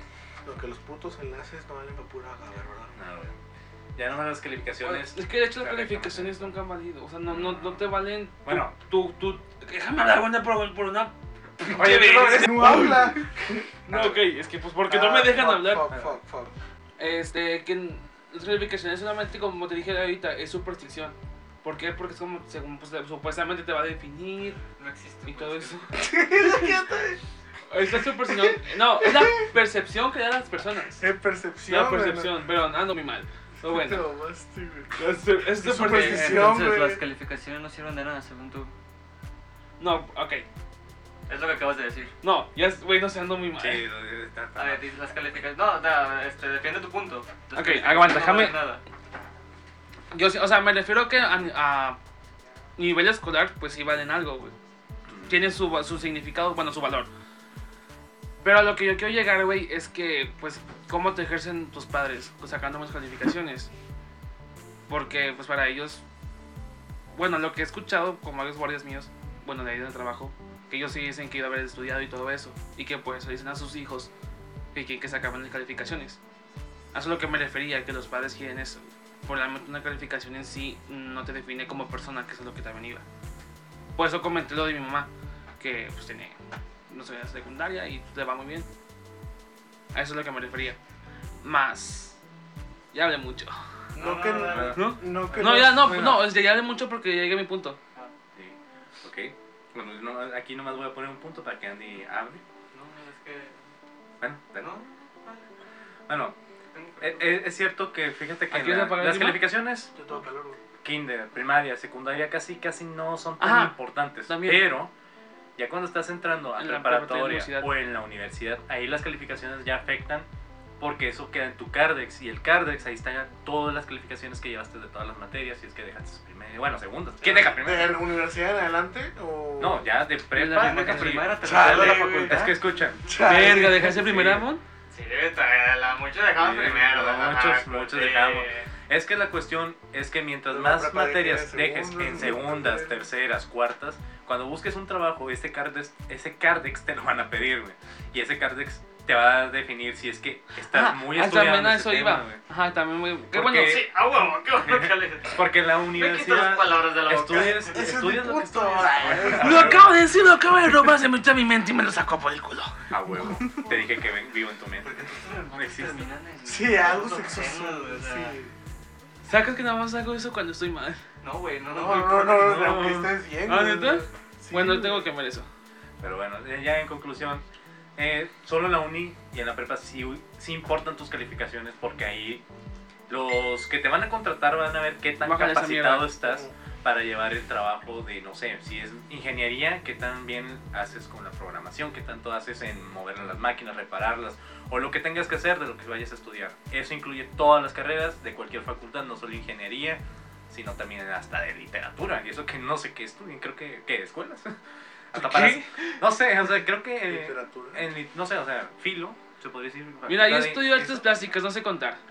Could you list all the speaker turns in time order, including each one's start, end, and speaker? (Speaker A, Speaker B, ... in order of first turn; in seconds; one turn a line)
Speaker A: 0.5-3.0
Speaker B: 2.9-3.4
Speaker B: 4.0-6.5
Speaker C: 4.8-13.3
Speaker B: 7.3-8.8
Speaker B: 11.7-12.8
Speaker A: 11.7-14.2
Speaker C: 13.9-15.9
Speaker A: 14.9-16.5
Speaker B: 15.9-16.2
Speaker C: 17.0-24.6
Speaker D: 24.8-25.9
Speaker C: 25.2-26.7
Speaker A: 26.0-27.2
Speaker C: 27.7-31.1
Speaker A: 31.0-32.3
Speaker C: 31.7-34.0
Speaker A: 33.6-35.0
Speaker C: 35.0-36.6
Speaker A: 35.5-37.0
Speaker D: 35.8-38.7
Speaker C: 39.8-40.5
Speaker D: 41.3-42.1
Speaker C: 42.2-43.9
Speaker B: 43.6-44.8
Speaker D: 44.6-48.8
Speaker C: 47.5-48.6
Speaker C: 50.1-52.0
Speaker C: 52.8-54.5
Speaker B: 55.1-55.5
Speaker C: 55.3-57.1
Speaker C: 58.4-63.7
Speaker C: 64.9-66.0
Speaker C: 67.1-74.1
Speaker C: 74.7-76.2
Speaker C: 76.9-83.0
Speaker C: 84.0-86.4
Speaker C: 86.9-88.7
Speaker C: 89.9-90.8
Speaker C: 91.4-92.2
Speaker C: 92.9-93.6
Speaker A: 94.0-96.1
Speaker D: 94.0-95.4
Speaker B: 94.4-94.8
Speaker C: 94.8-97.8
Speaker B: 95.8-96.2
Speaker B: 98.3-102.4
Speaker D: 102.7-103.7
Speaker B: 104.2-104.7
Speaker D: 104.6-105.5
Speaker B: 106.1-106.4
Speaker D: 106.7-107.4
Speaker B: 107.0-109.9
Speaker C: 108.5-109.5
Speaker A: 110.0-110.6
Speaker B: 110.8-114.9
Speaker C: 113.4-114.7
Speaker B: 115.6-120.3
Speaker C: 116.6-117.7
Speaker B: 120.8-128.0
Speaker A: 127.2-129.9
Speaker B: 129.6-134.4
Speaker C: 130.3-131.3
Speaker D: 130.5-132.6
Speaker A: 131.4-132.5
Speaker A: 133.1-134.1
Speaker C: 133.2-134.6
Speaker D: 134.9-138.7
Speaker B: 136.3-152.4
Speaker A: 140.5-142.9
Speaker C: 150.7-153.8
Speaker B: 153.3-154.0
Speaker D: 153.7-157.9
Speaker B: 154.6-160.0
Speaker A: 157.3-159.9
Speaker C: 159.4-163.5
Speaker B: 162.9-166.0
Speaker D: 164.8-168.4
Speaker A: 166.4-168.5
Speaker C: 169.2-171.0
Speaker D: 171.2-172.5
Speaker A: 171.7-175.1
Speaker B: 172.3-173.1
Speaker C: 173.5-175.5
Speaker B: 176.0-177.4
Speaker B: 178.0-182.4
Speaker B: 183.1-204.6
Speaker C: 185.2-186.1
Speaker A: 186.2-186.5
Speaker B: 205.1-211.3
Speaker C: 205.1-206.0
Speaker A: 207.1-207.9
Speaker C: 210.1-212.0